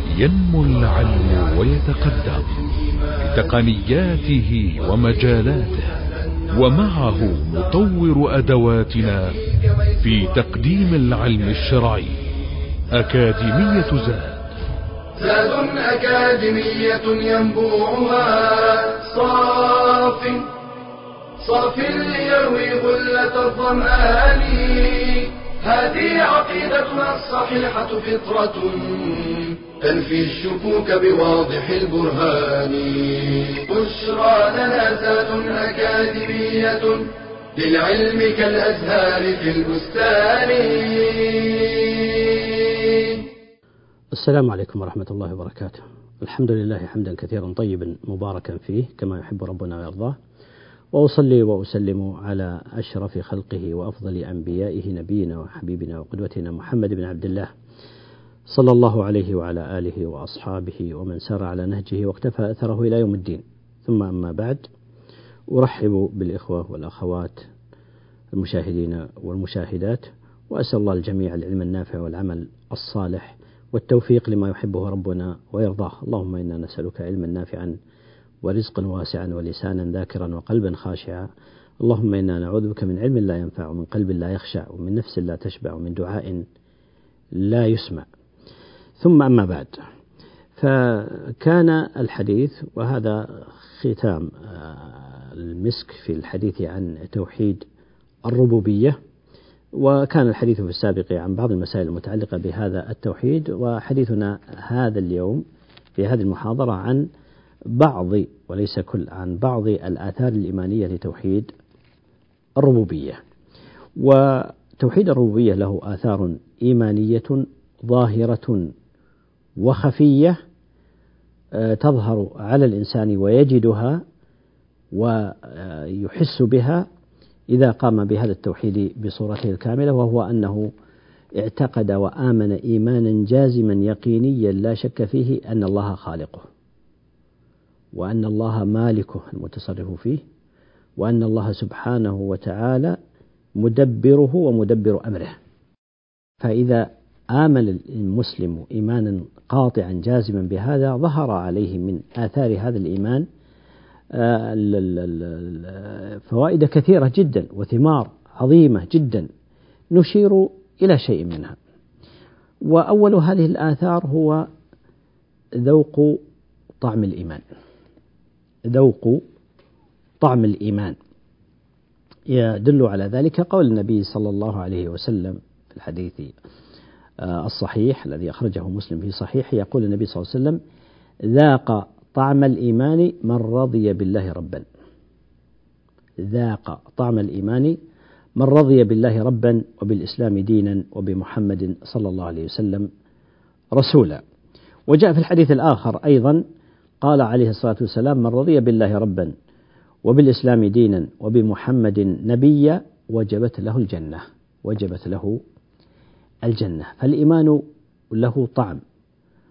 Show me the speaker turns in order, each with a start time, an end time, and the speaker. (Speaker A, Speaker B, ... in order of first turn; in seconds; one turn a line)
Speaker A: 0.1-2.6
Speaker B: 0.8-3.9
Speaker A: 3.2-5.9
Speaker B: 4.8-7.7
Speaker A: 6.5-9.4
Speaker B: 9.0-11.2
Speaker A: 10.0-12.2
Speaker A: 13.0-14.4
Speaker B: 15.2-20.5
Speaker B: 21.4-43.3
Speaker C: 44.1-50.1
Speaker C: 50.9-57.5
Speaker C: 58.5-64.6
Speaker C: 65.5-67.4
Speaker C: 68.3-77.7
Speaker C: 78.4-81.2
Speaker C: 81.8-86.4
Speaker C: 87.4-88.1
Speaker C: 89.0-89.8
Speaker C: 90.6-97.6
Speaker C: 98.3-99.0
Speaker C: 99.8-105.4
Speaker C: 106.0-107.0
Speaker C: 107.7-111.5
Speaker C: 112.6-113.2
Speaker C: 114.0-118.7
Speaker C: 119.6-120.3
Speaker C: 121.5-124.0
Speaker C: 124.9-126.8
Speaker C: 127.5-130.7
Speaker C: 131.4-136.4
Speaker C: 137.9-140.2
Speaker C: 141.0-143.0
Speaker C: 143.6-145.3
Speaker C: 146.4-153.2
Speaker C: 154.1-159.3
Speaker C: 159.9-161.6
Speaker C: 162.7-164.4
Speaker C: 165.6-166.2
Speaker C: 166.8-167.4
Speaker C: 168.7-169.2
Speaker C: 170.2-170.9
Speaker C: 172.3-176.3
Speaker C: 177.2-180.6
Speaker C: 181.3-184.6
Speaker C: 186.2-187.8
Speaker C: 188.4-192.9
Speaker C: 193.7-194.2
Speaker C: 194.9-196.4
Speaker C: 197.0-199.3
Speaker C: 200.1-205.4
Speaker C: 206.4-207.6
Speaker C: 208.1-208.8